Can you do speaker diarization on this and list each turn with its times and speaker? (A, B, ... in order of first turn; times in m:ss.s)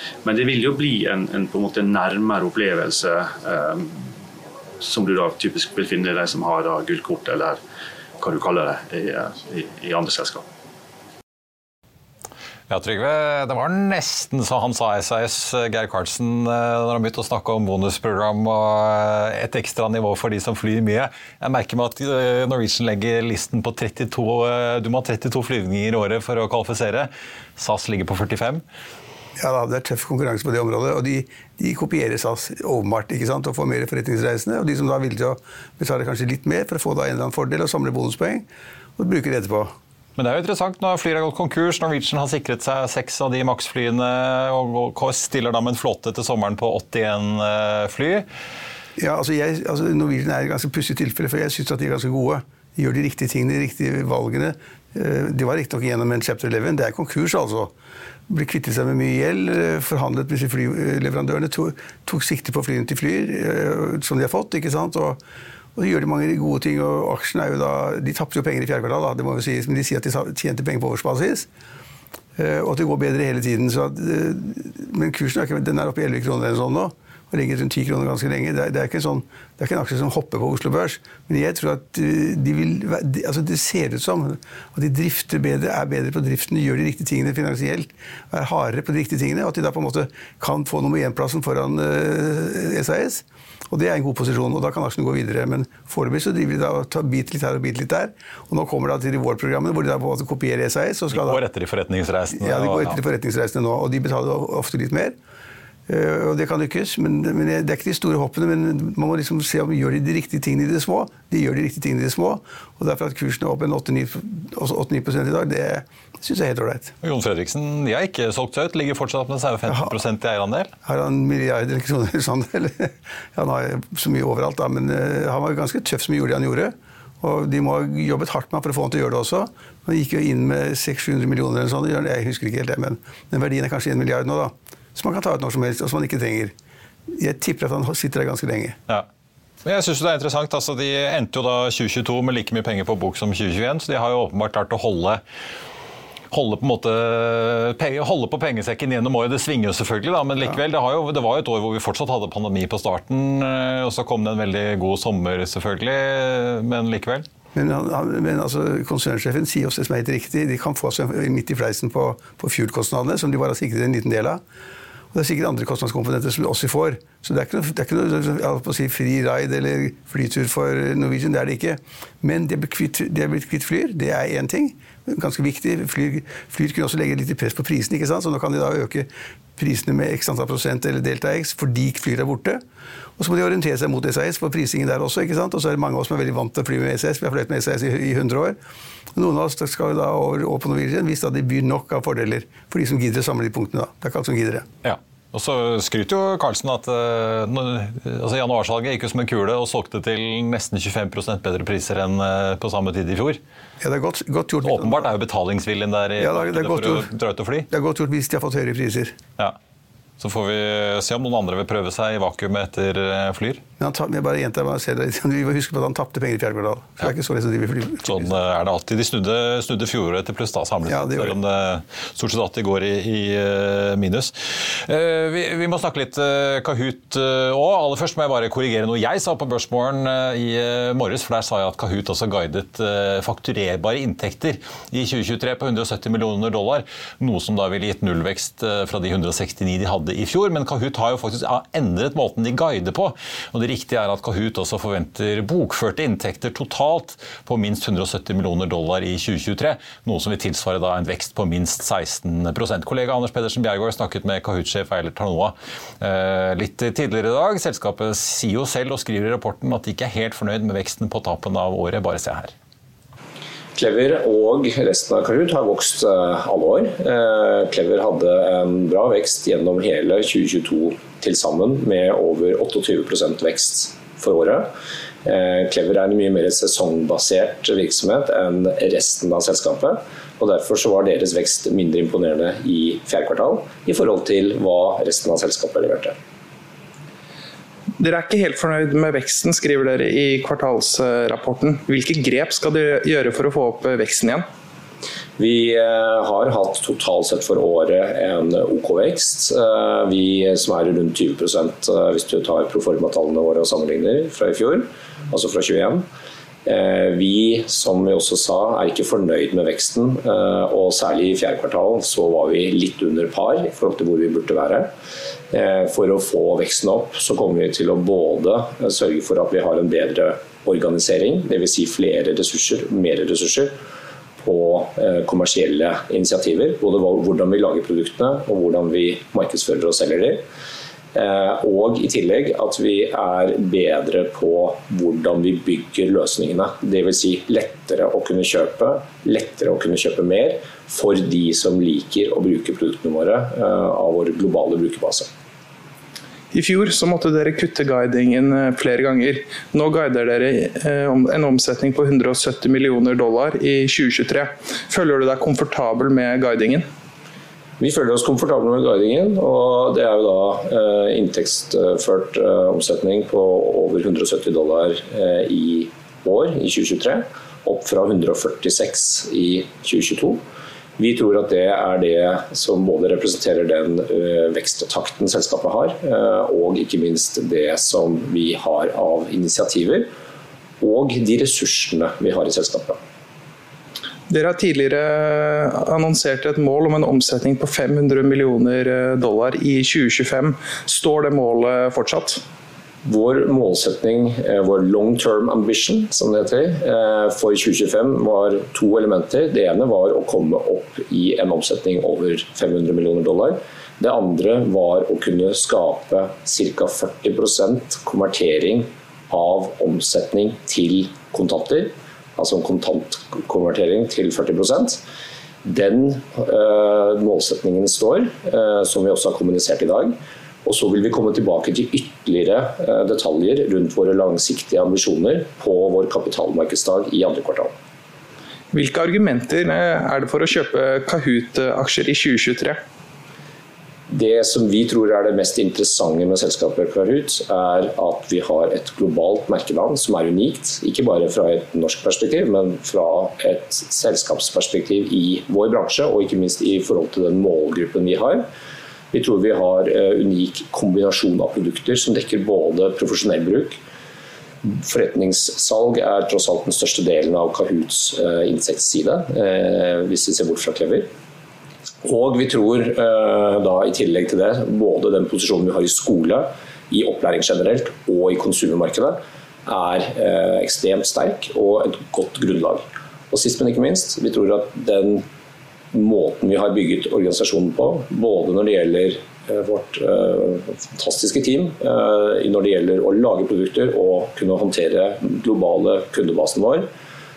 0:00.2-0:04.0 A
0:04.8-0:07.6 A
0:08.2-0:10.4 A
0:12.7-0:28.6 B
0:29.4-0:38.4 C
0:39.0-0:39.7 C
0:40.2-0:48.2 B
0:49.0-0:57.7 C
0:58.3-1:05.2 C
1:05.8-1:11.5 C
1:12.4-1:41.4 C
1:41.1-1:43.0 B
1:42.4-1:45.1 C
1:45.9-1:56.9 C
1:57.0-2:00.7 B
2:00.8-2:16.5 C
2:17.2-2:18.8 C
2:19.6-2:25.2 B
2:26.3-2:37.2 B
2:37.5-2:44.4 C
2:45.1-3:02.6 C
3:03.2-3:08.6 C
3:09.1-3:14.7 C
3:14.8-3:23.4 B
3:23.8-3:25.1 C
3:24.6-3:27.7 B
3:26.2-3:27.1 C
3:27.7-3:29.2 C
3:30.2-3:33.6 B
3:33.8-3:38.3 C
3:38.0-4:22.5 B
3:40.8-3:41.4 C
4:23.7-4:34.7 D
4:35.2-4:46.1 D
4:48.0-4:54.4 E
4:55.4-5:06.0 D
5:06.6-5:14.9 D
5:15.5-5:23.7 D
5:24.4-5:30.4 D
5:31.1-5:45.3 D
5:46.5-5:56.8 E
5:57.8-6:10.4 D
6:11.0-6:20.1 D
6:20.8-6:23.0 D
6:24.3-6:32.4 E
6:33.0-6:55.0 D
6:55.6-7:07.7 D
7:08.7-7:12.8 E
7:14.1-7:28.4 D
7:29.1-7:33.8 D
7:34.6-7:41.1 D
7:42.0-7:55.2 D
7:55.9-8:06.9 D